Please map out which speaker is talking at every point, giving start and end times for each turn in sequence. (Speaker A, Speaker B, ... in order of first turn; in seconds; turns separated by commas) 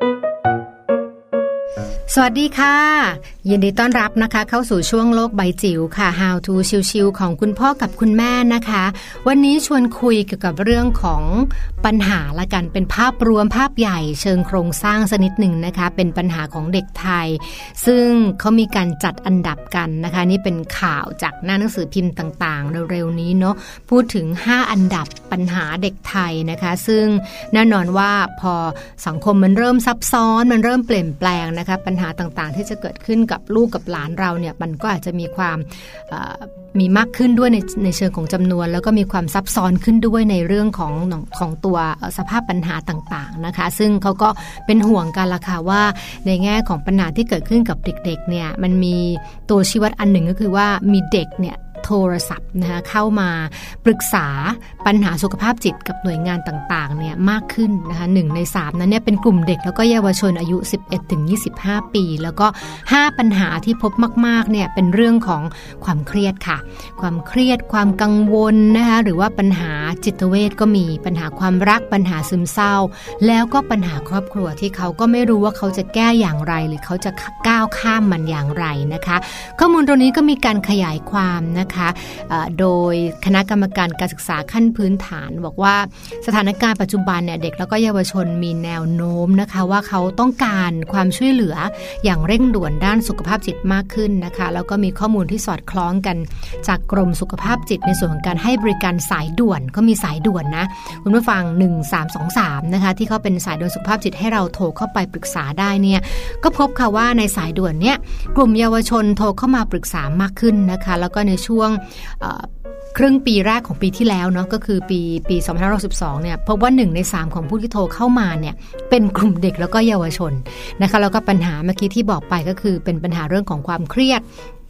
Speaker A: 2.1-124.2